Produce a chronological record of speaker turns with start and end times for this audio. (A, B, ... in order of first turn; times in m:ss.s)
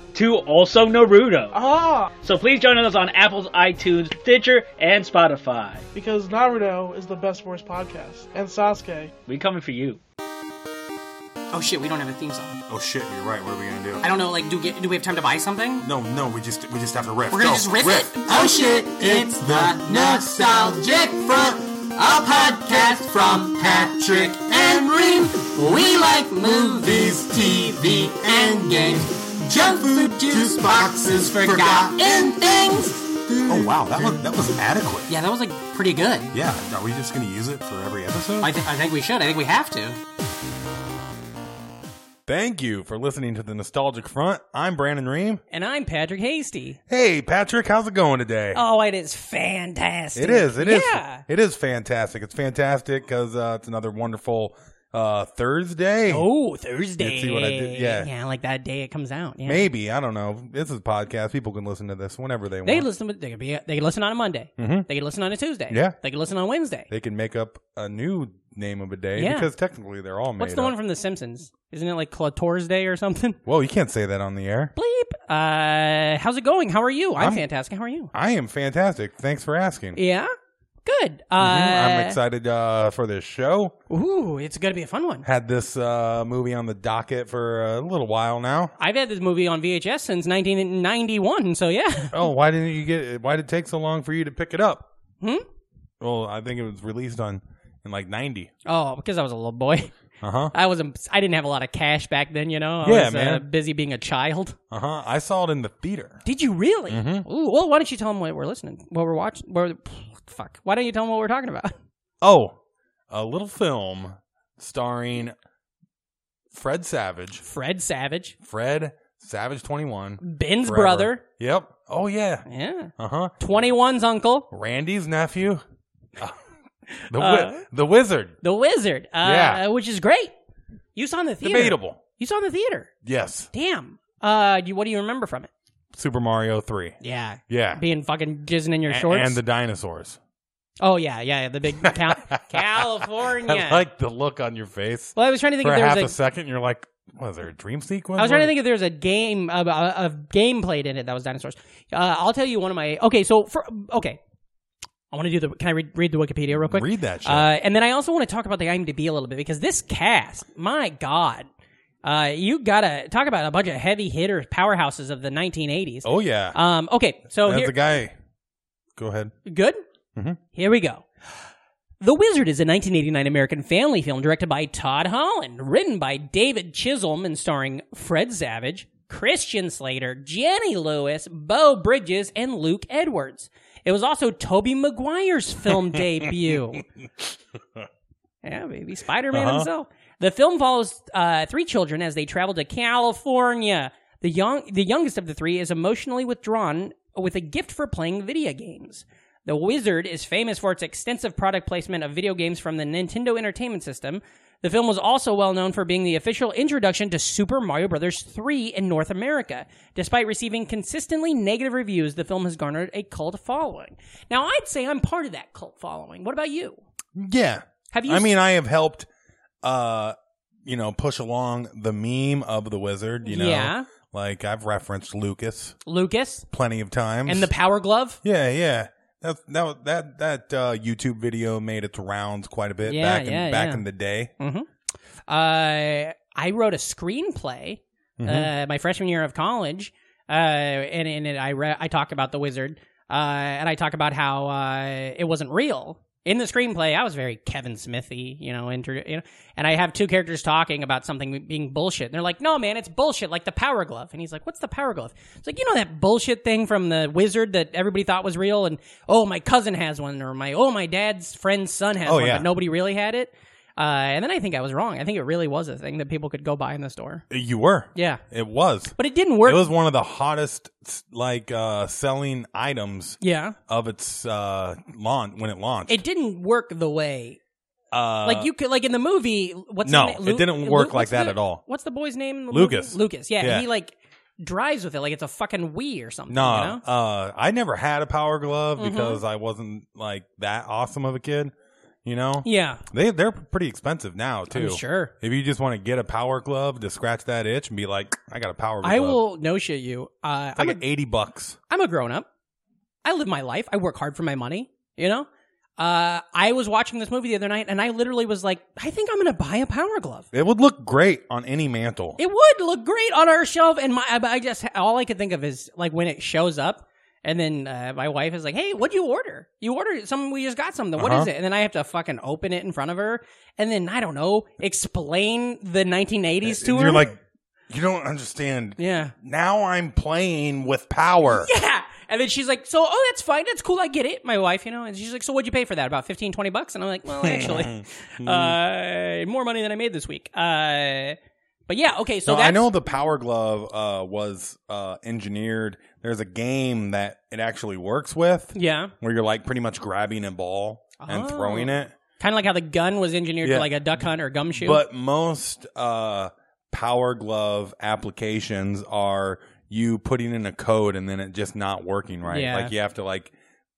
0:00.1-0:01.6 A
0:01.5-0:02.1 B
0:02.2-0:05.8 A
0:05.9-0:09.1 B
0:09.3-0:10.0 A
0:11.5-0:12.5 C
0:12.7-0:14.1 D
0:14.0-0:15.9 C
0:15.8-0:20.3 D
0:17.3-0:21.4 C
0:19.0-0:20.1 E
0:22.0-0:22.7 E
0:22.1-0:33.0 C
0:23.5-0:32.6 E
0:26.8-0:28.0 D
0:29.5-0:32.0 D
0:33.4-0:35.1 D
0:35.1-0:36.3 C
0:36.3-0:38.5 D
0:38.4-0:40.0 C
0:42.2-0:45.4 D
0:45.5-0:46.8 C
0:46.9-0:48.6 D
0:48.5-0:51.2 C
0:50.1-0:56.2 D
0:56.1-0:59.7 C
0:57.0-0:58.1 D
0:59.4-1:02.9 D
1:02.6-1:06.9 C
1:04.6-1:04.9 D
1:05.7-1:06.0 D
1:06.9-1:10.7 D
1:09.2-1:09.5 C
1:10.4-1:13.4 C
1:13.4-1:14.7 D
1:14.8-1:18.1 C
1:17.2-1:17.4 D
1:18.1-1:20.0 D
1:19.9-1:20.3 C
1:20.8-1:22.2 C
1:21.4-1:23.7 D
1:23.9-1:25.2 C
1:25.2-1:28.7 D
1:28.8-1:32.2 C
1:32.1-1:34.9 D
1:36.0-1:38.5 D
1:38.6-1:39.9 C
1:40.2-1:40.5 D
1:40.5-1:44.6 C
1:42.8-1:43.4 D
1:44.7-1:46.2 D
1:46.2-1:51.7 C
1:46.9-1:47.2 D
1:52.2-1:52.6 D
1:53.1-1:55.3 D
1:56.5-1:57.4 D
1:57.4-1:58.3 C
1:58.4-2:02.4 D
2:00.2-2:01.2 C
2:02.5-2:04.4 C
2:03.0-2:03.3 D
2:04.5-2:05.6 D
2:06.9-2:07.6 C
2:07.1-2:08.4 D
2:08.4-2:10.3 C
2:09.2-2:09.6 D
2:10.9-2:12.9 C
2:11.4-2:12.0 D
2:13.0-2:13.5 D
2:13.5-2:15.5 C
2:15.9-2:16.9 D
2:17.0-2:19.4 C
2:17.5-2:17.8 D
2:18.9-2:20.2 D
2:20.8-2:23.8 C
2:21.8-2:28.5 D
2:25.2-2:26.1 C
2:28.2-2:34.2 C
2:35.1-2:41.5 C
2:36.5-2:37.5 D
2:42.0-2:47.7 C
2:46.0-2:46.6 D
2:47.4-2:48.1 D
2:49.0-2:49.3 D
2:49.4-2:49.8 C
2:50.5-2:51.0 C
2:52.0-3:06.8 C
3:05.7-3:06.3 D
3:08.4-3:36.8 C
3:09.3-3:09.7 D
3:37.2-3:39.1 D
3:37.9-3:38.3 C
3:39.6-3:45.8 D
3:43.2-3:43.8 C
3:45.8-3:46.4 C
3:46.5-3:47.5 D
3:47.2-3:48.2 C
3:48.2-3:54.3 D
3:52.8-3:53.8 C
3:54.4-3:54.7 C
3:55.3-4:27.2 C
3:58.2-3:58.5 D
4:22.0-4:22.5 D
4:27.3-4:36.0 D
4:27.9-4:28.2 C
4:29.0-4:29.6 C
4:33.2-4:33.6 C
4:35.9-4:37.4 C
4:37.9-4:38.5 D
4:38.2-4:46.8 C
4:39.8-4:41.6 D
4:42.5-4:43.6 D
4:46.3-4:51.5 D
4:48.8-4:49.2 C
4:52.0-4:59.2 D
4:52.4-4:52.8 C
4:54.5-4:55.1 C
4:58.8-5:00.8 C
5:00.6-5:01.6 D
5:01.7-5:02.2 C
5:03.0-5:05.3 C
5:05.8-5:10.3 C
5:10.3-5:12.2 D
5:12.2-5:27.1 C
5:21.0-5:21.3 D
5:26.4-5:31.5 D
5:28.8-5:29.1 C
5:31.3-5:41.2 C
5:37.2-5:38.6 D
5:41.7-5:42.7 C
5:42.2-5:51.9 D
5:48.5-5:48.9 C
5:51.0-5:54.8 C
5:53.4-5:53.7 D
5:54.5-6:03.3 D
6:02.3-6:02.7 C